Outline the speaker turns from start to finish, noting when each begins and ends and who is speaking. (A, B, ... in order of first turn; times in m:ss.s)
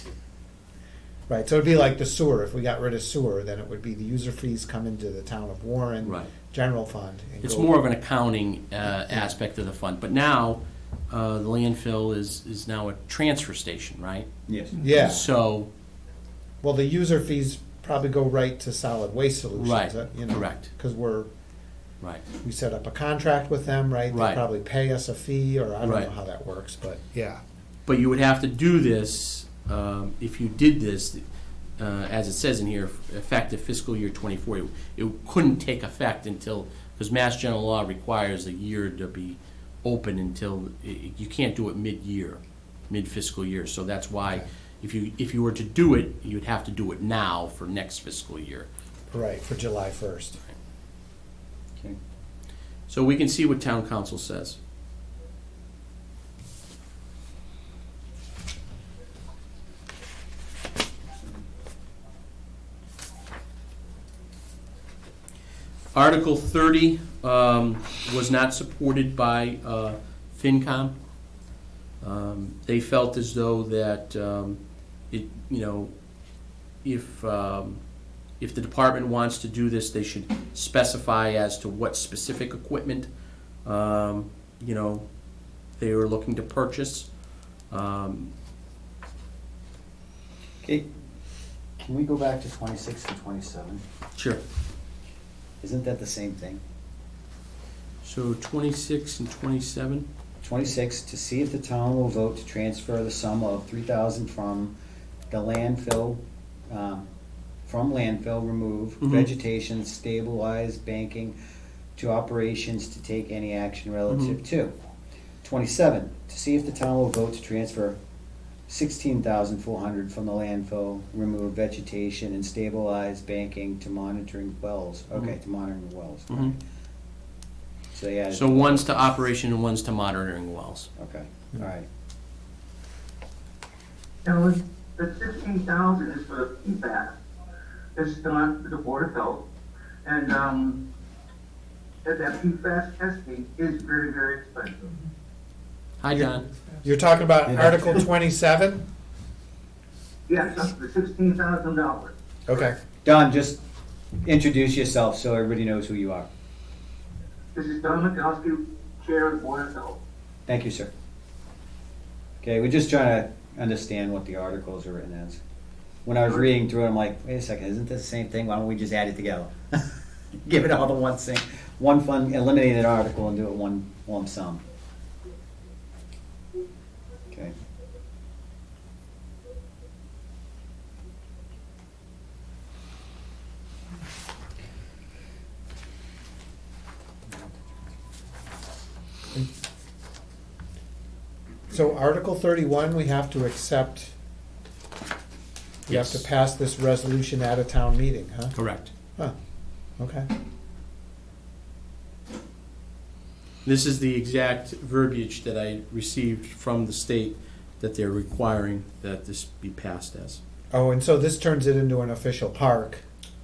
0:01.3-0:07.7 A
0:06.0-0:06.3 B
0:07.4-0:14.3 B
0:08.9-0:09.4 A
0:14.5-0:14.8 C
0:14.8-0:15.3 A
0:14.9-0:15.7 B
0:16.6-0:21.3 A
0:19.5-0:20.7 B
0:22.4-0:27.4 A
0:24.1-0:24.4 B
0:25.8-0:26.1 B
0:27.8-0:31.2 B
0:31.8-0:48.7 B
0:49.1-0:50.4 A
0:52.9-0:54.6 B
1:05.9-1:10.9 B
1:12.0-1:14.6 B
1:15.1-1:15.9 B
1:16.8-1:17.8 B
1:18.4-1:23.1 B
1:23.6-1:25.0 B
1:25.8-1:27.1 B
1:27.7-1:28.3 B
1:31.8-1:33.8 C
1:34.1-1:34.4 B
1:35.6-1:36.6 C
1:38.0-1:40.1 B
1:40.4-1:44.7 C
1:45.3-1:47.0 C
1:47.7-1:51.4 C
1:49.0-1:49.3 B
1:52.0-1:54.7 C
1:54.1-1:54.4 B
1:55.4-1:58.0 C
1:58.7-2:06.6 C
2:07.9-2:09.2 C
2:08.3-2:10.9 B
2:11.0-2:11.8 C
2:14.2-2:17.2 D
2:18.0-2:19.4 D
2:20.0-2:20.8 D
2:22.0-2:25.0 D
2:26.0-2:26.5 B
2:26.1-2:28.8 A
2:27.4-2:28.0 C
2:30.3-2:32.1 D
2:32.5-2:32.8 A
2:33.0-2:33.6 C
2:34.2-2:36.3 C
2:37.5-2:40.0 D
2:40.5-2:40.9 C
2:42.4-2:45.4 C
2:46.0-2:54.6 C
2:46.2-2:46.5 D
3:11.7-3:14.1 A
3:15.9-3:16.2 B
3:15.9-3:18.5 A
3:18.5-3:18.9 B
3:20.0-3:20.3 A
3:23.6-3:30.4 B
3:30.7-3:33.0 A